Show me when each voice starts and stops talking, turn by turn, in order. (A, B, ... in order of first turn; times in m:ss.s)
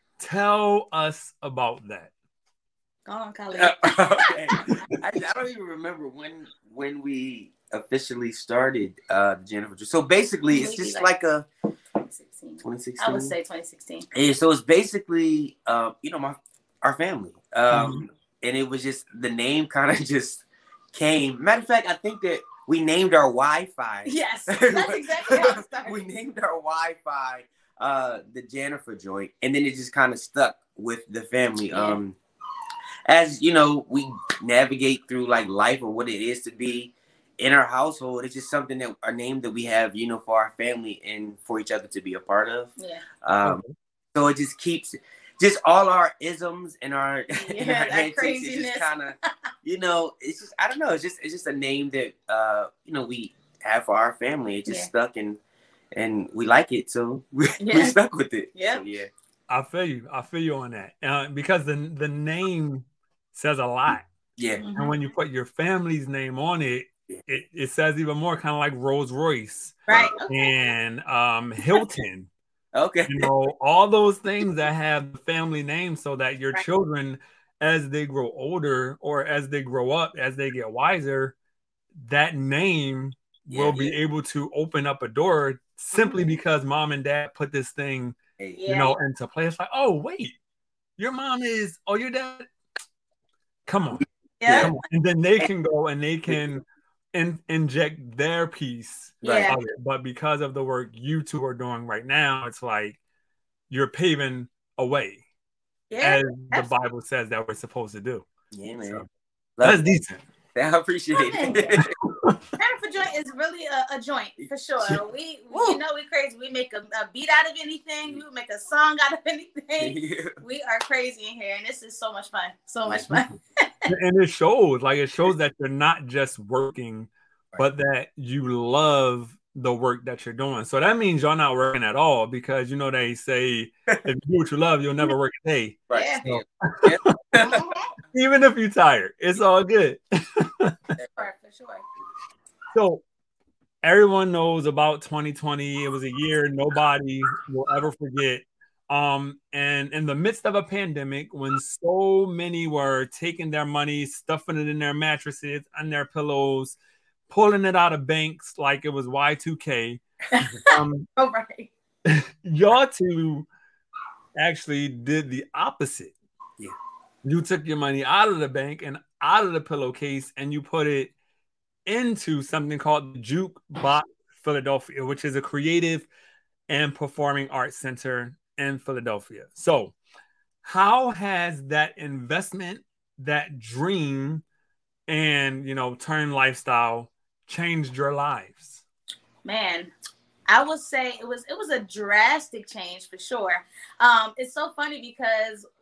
0:00.2-0:02.1 A
0:03.1-0:05.0 B
0:03.5-0:11.5 C
0:10.5-0:11.1 B
0:12.0-0:14.1 B
0:12.6-0:13.3 C
0:14.1-0:32.2 C
0:17.7-0:18.0 A
0:24.0-0:26.0 B
0:31.7-0:32.0 B
0:33.1-0:43.6 C
0:42.8-0:43.0 B
0:43.4-0:43.7 A
0:44.1-0:55.4 C
0:47.3-0:49.0 B
0:55.9-0:59.1 C
0:57.6-0:58.0 B
0:58.6-0:58.8 B
0:59.5-1:04.1 A
1:04.4-1:04.6 C
1:04.6-1:04.9 B
1:04.7-1:12.3 A
1:09.9-1:10.6 B
1:09.9-1:10.2 C
1:12.8-1:13.3 C
1:13.1-1:21.4 A
1:22.0-1:28.2 A
1:23.5-1:24.0 C
1:28.6-1:29.0 B
1:28.7-1:30.4 A
1:31.0-1:32.5 A
1:33.7-1:43.0 A
1:34.4-1:34.7 B
1:34.4-1:34.7 C
1:39.2-1:39.6 C
1:39.2-1:39.6 B
1:43.7-1:45.2 A
1:45.9-1:46.7 B
1:46.0-1:48.3 A
1:48.5-1:49.0 C
1:49.6-1:49.8 C
1:49.6-1:50.2 A
1:50.6-1:51.9 C
1:51.1-1:51.7 B
1:51.7-1:52.4 A
1:52.6-2:03.9 B
1:59.8-2:00.4 C
2:02.9-2:03.1 C
2:03.9-2:17.4 A
2:15.9-2:17.6 C
2:15.9-2:16.2 B
2:17.4-2:17.9 B
2:18.1-2:20.8 A
2:21.2-2:21.8 B
2:22.7-2:23.0 A
2:23.8-2:36.8 A
2:37.3-2:40.0 A
2:40.3-2:41.7 B
2:40.6-2:41.1 A
2:42.0-2:43.5 A
2:44.4-2:46.1 A
2:47.2-2:51.1 A
2:51.9-2:56.1 A
2:56.7-3:00.0 A
3:00.6-3:04.4 A
3:05.1-3:08.8 A
3:09.4-3:09.9 B
3:10.5-3:15.6 B